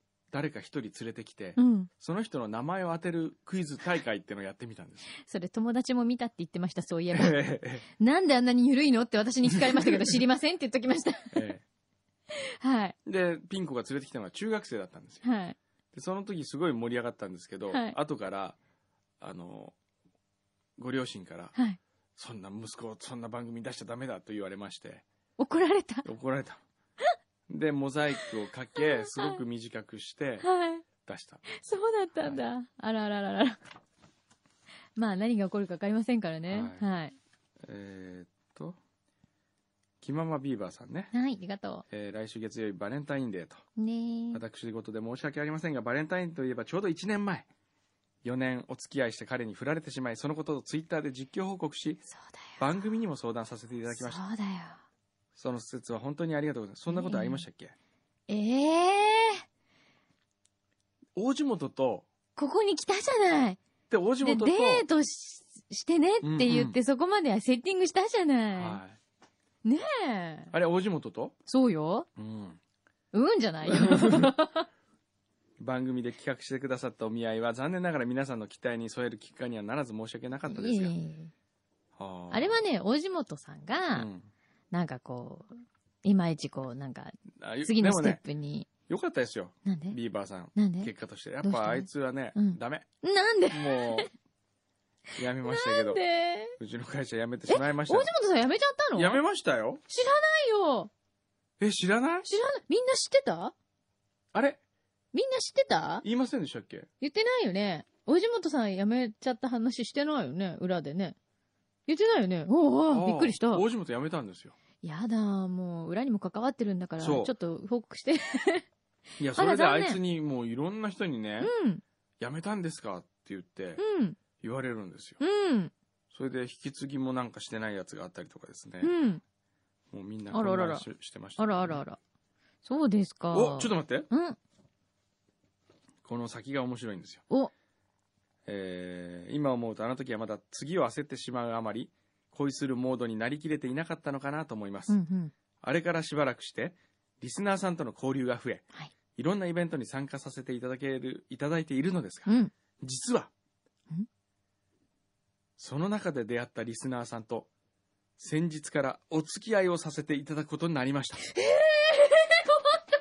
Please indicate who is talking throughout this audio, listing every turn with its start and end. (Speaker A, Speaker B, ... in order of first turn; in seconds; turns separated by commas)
Speaker A: 0.3-5.1, Speaker B: 1.6-1.9, Speaker B: 5.2-11.5, Speaker A: 7.1-7.8, Speaker A: 11.3-11.6, Speaker B: 12.3-13.0, Speaker A: 13.1-15.2, Speaker B: 15.2-15.6, Speaker A: 15.9-18.6, Speaker B: 17.7-18.0, Speaker A: 19.2-19.8, Speaker A: 20.8-21.6, Speaker A: 22.2-25.0, Speaker B: 25.4-26.1, Speaker A: 26.1-26.6, Speaker A: 27.5-31.5, Speaker B: 28.8-29.4, Speaker B: 30.4-30.9, Speaker B: 31.5-33.6, Speaker B: 35.0-37.1, Speaker A: 36.5-36.9, Speaker A: 37.6-38.8, Speaker A: 40.0-41.1, Speaker B: 41.1-41.9, Speaker A: 41.9-43.6, Speaker B: 43.8-44.4, Speaker A: 44.3-47.5, Speaker A: 48.2-52.0, Speaker B: 52.1-52.6, Speaker A: 52.6-54.2, Speaker B: 53.9-54.8, Speaker A: 55.4-57.7, Speaker B: 56.9-57.4, Speaker B: 58.3-59.4, Speaker A: 61.2-62.1, Speaker B: 62.4-63.6, Speaker A: 63.9-64.9, Speaker B: 64.2-68.8, Speaker A: 66.2-66.8, Speaker A: 68.6-69.0, Speaker B: 69.7-70.5, Speaker A: 70.5-71.4, Speaker B: 71.5-72.1, Speaker A: 72.2-72.6, Speaker B: 73.1-74.7, Speaker A: 73.6-74.3, Speaker A: 75.6-80.9, Speaker B: 80.5-81.3, Speaker A: 82.0-82.6, Speaker B: 82.3-84.1, Speaker A: 83.9-84.3, Speaker B: 84.7-88.7, Speaker A: 87.4-88.2, Speaker A: 88.9-92.9, Speaker B: 89.7-90.0, Speaker B: 90.5-90.9, Speaker B: 91.4-94.1, Speaker A: 93.5-94.1, Speaker A: 95.2-96.0, Speaker B: 95.4-96.6, Speaker A: 96.6-98.1, Speaker B: 97.5-99.2, Speaker A: 99.0-99.8, Speaker B: 99.9-100.9, Speaker A: 101.6-102.3, Speaker B: 102.3-103.5, Speaker A: 104.3-104.6, Speaker B: 105.1-106.0, Speaker A: 106.0-106.9, Speaker B: 107.0-111.2, Speaker B: 111.9-113.7, Speaker A: 112.9-114.6, Speaker B: 114.8-118.7, Speaker A: 117.0-117.3, Speaker A: 119.2-121.5, Speaker B: 119.3-120.0, Speaker B: 121.4-121.8, Speaker A: 122.2-123.8, Speaker B: 123.8-124.2, Speaker A: 124.4-125.2, Speaker B: 125.2-125.7, Speaker A: 126.1-128.9, Speaker B: 128.8-129.2, Speaker A: 129.9-131.8, Speaker B: 130.3-130.9, Speaker B: 131.4-132.0, Speaker B: 132.7-134.4, Speaker A: 133.3-134.1, Speaker A: 136.0-137.2, Speaker A: 138.5-145.0, Speaker B: 144.9-145.3, Speaker A: 145.6-148.7, Speaker A: 149.2-153.3, Speaker B: 152.3-152.5, Speaker A: 155.6-157.5, Speaker A: 158.2-161.3, Speaker B: 161.3-162.8